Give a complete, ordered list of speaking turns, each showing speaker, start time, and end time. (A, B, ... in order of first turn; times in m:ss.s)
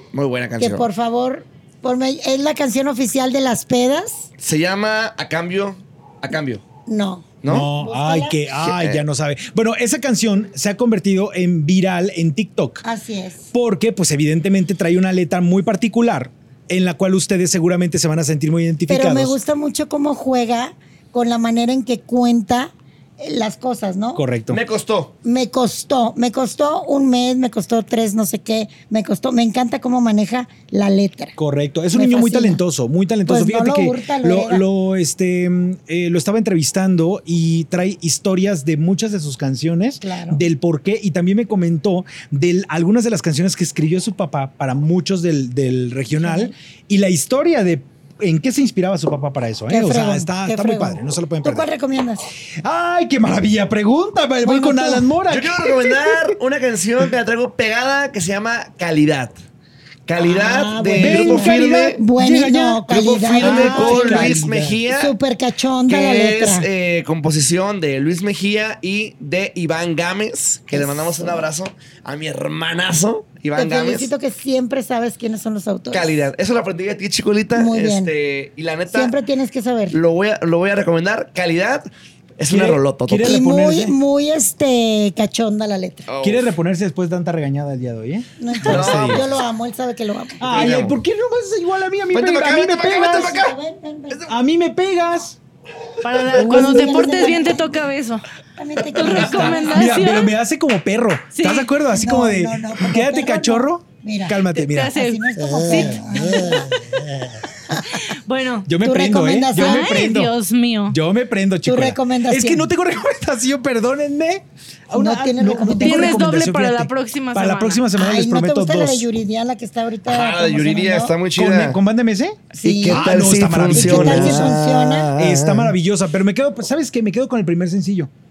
0:00.1-0:00.9 A
0:00.6-0:04.3 B
0:04.4-0:06.6 A
0:06.9-0:08.4 B
0:07.4-0:07.7 A
0:07.5-0:12.8 C
0:08.6-0:09.0 A
0:12.8-0:13.5 B
0:13.5-0:19.4 C
0:18.9-0:24.2 B
0:24.2-0:24.6 C
0:24.5-0:25.1 A
0:25.2-0:31.4 B
0:31.4-0:51.7 C
0:31.9-0:32.6 B
0:33.3-0:34.6 B
0:40.0-0:40.4 B
0:46.1-0:46.5 B
0:49.7-0:52.2 B
0:52.6-0:56.2 C
0:54.4-0:55.1 B
0:55.3-0:59.4 A
1:00.1-1:02.0 A
1:00.2-1:06.7 B
1:01.0-1:04.8 C
1:03.1-1:05.1 A
1:05.9-1:14.1 A
1:10.7-1:11.5 B
1:13.6-1:16.2 B
1:15.9-1:19.1 A
1:17.5-1:18.1 B
1:18.9-1:20.0 B
1:19.9-1:23.4 A
1:22.5-1:24.0 C
1:23.2-1:26.1 B
1:26.1-1:26.5 A
1:26.2-1:29.3 C
1:28.4-1:30.5 B
1:28.6-1:29.3 A
1:30.4-1:33.4 C
1:30.5-1:31.0 A
1:32.1-1:33.6 A
1:32.8-1:34.3 B
1:34.3-1:35.4 C
1:36.0-1:38.3 D
1:36.3-1:37.8 B
1:38.6-1:40.2 B
1:38.9-1:40.3 D
1:39.0-1:47.4 C
1:41.3-1:41.7 D
1:41.9-1:44.4 B
1:44.6-1:47.0 D
1:44.9-1:46.8 B
1:47.9-1:48.7 D
1:48.7-1:50.3 C
1:48.8-1:50.0 B
1:49.6-1:51.0 D
1:50.9-1:59.1 C
1:51.7-1:52.7 B
1:54.9-1:56.2 B
1:55.8-1:57.8 D
1:58.0-2:01.2 B
2:00.1-2:01.8 A
2:01.4-2:04.6 C
2:02.6-2:05.1 B
2:02.6-2:05.7 A
2:05.2-2:08.1 C